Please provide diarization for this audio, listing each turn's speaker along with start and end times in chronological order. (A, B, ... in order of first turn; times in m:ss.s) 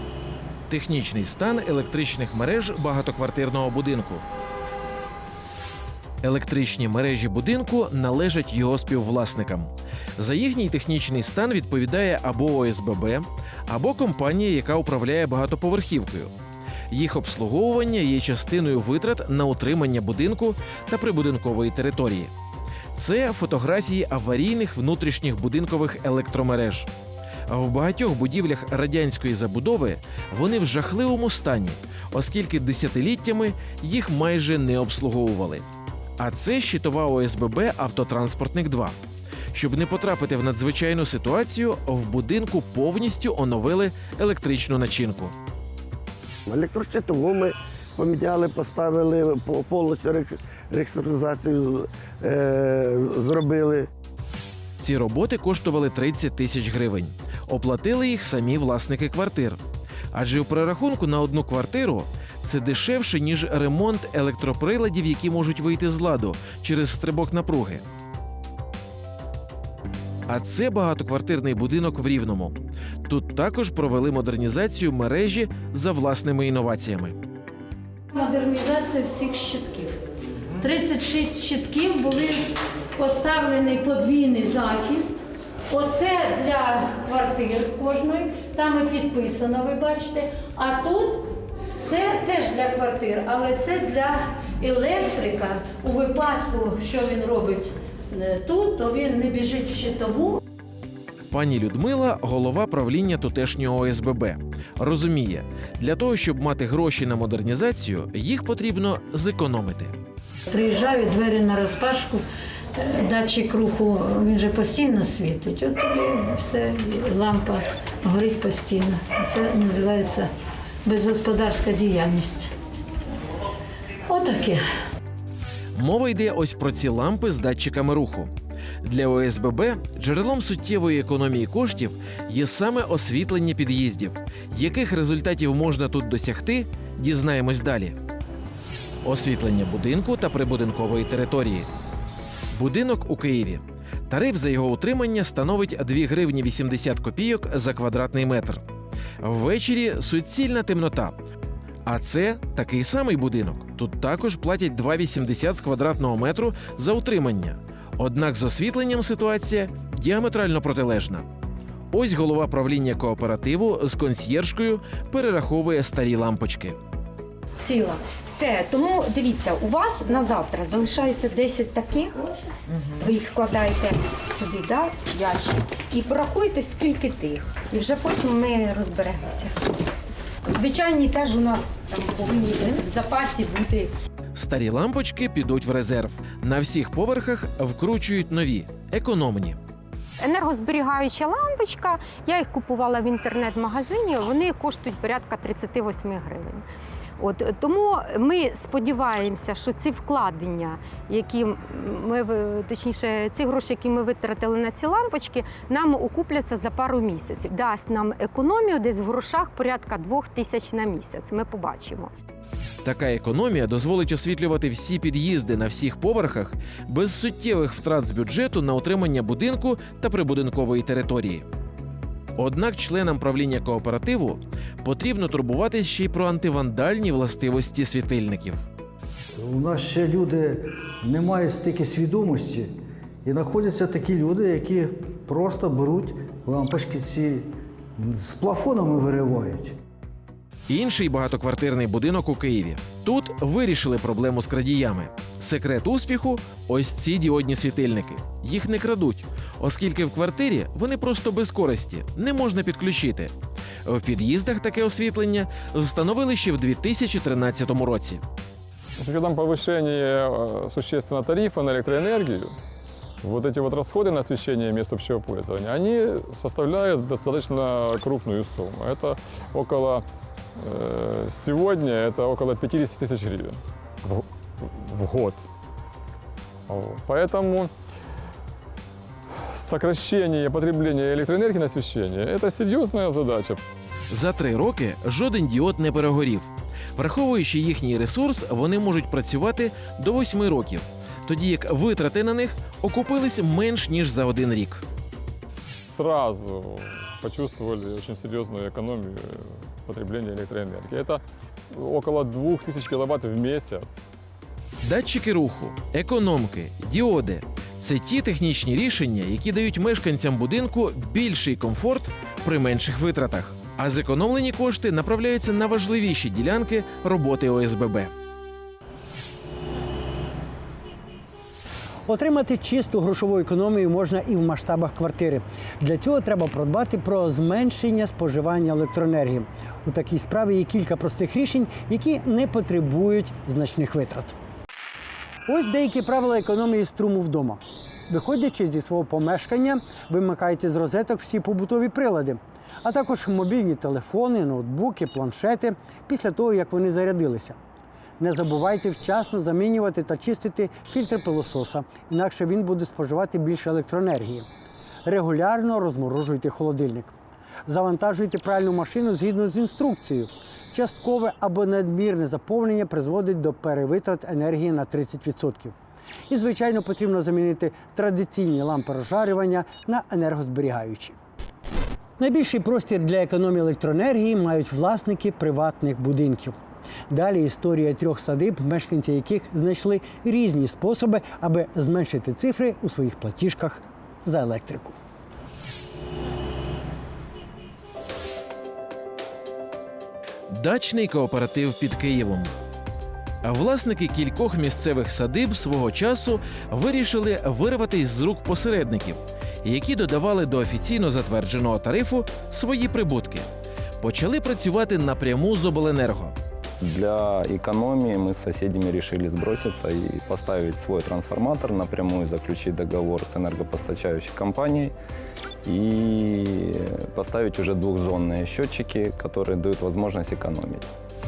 0:00.7-0:04.2 A
0:06.2-0:16.3 A
0:16.9-0:22.3 A
0:22.9-0:26.9 A
0:27.5-0:35.6 A
0:36.2-0:38.9 A
0:39.5-0:45.3 A
0:46.5-0:53.9 B
0:54.8-0:59.6 A
1:00.1-1:07.8 A
1:10.3-1:17.2 A
1:18.1-1:20.0 C
1:20.6-1:40.4 C
1:41.3-1:50.0 A
1:50.5-1:52.2 C
1:52.7-2:00.3 C
2:00.8-2:02.5 C
2:04.1-2:04.6 C
2:05.8-2:08.3 A
2:08.8-2:18.0 A
2:19.0-2:21.7 A
2:22.5-2:28.6 A
2:29.2-2:31.2 A
2:31.8-2:41.2 A
2:41.9-2:46.8 A
2:47.6-2:52.1 D
2:53.0-2:59.5 D
3:00.5-3:03.9 D
3:04.3-3:09.6 A
3:10.2-3:16.6 D
3:17.2-3:32.1 D
3:32.8-3:41.4 A
3:42.4-3:48.6 A
3:49.5-3:52.7 E
3:53.3-3:57.4 E
3:58.1-3:59.7 E
4:00.7-4:13.3 A
4:13.8-4:18.2 A
4:19.0-4:22.5 F
4:23.2-4:30.0 F
4:30.6-4:35.4 F
4:36.7-4:37.7 F
4:39.5-4:43.6 F
4:44.1-4:54.8 A
4:55.9-5:01.2 F
5:01.7-5:04.0 F
5:04.8-5:18.1 A
5:22.1-5:34.4 G
5:35.5-5:47.6 G
5:48.2-5:54.5 G
5:55.0-5:57.1 G
5:57.6-6:05.8 G
6:06.3-6:11.2 G
6:12.2-6:16.6 G
6:17.1-6:25.0 G
6:30.5-6:32.5 A
6:33.4-6:43.5 A
6:44.0-6:46.3 A
6:46.8-6:54.9 H
6:55.6-7:00.9 H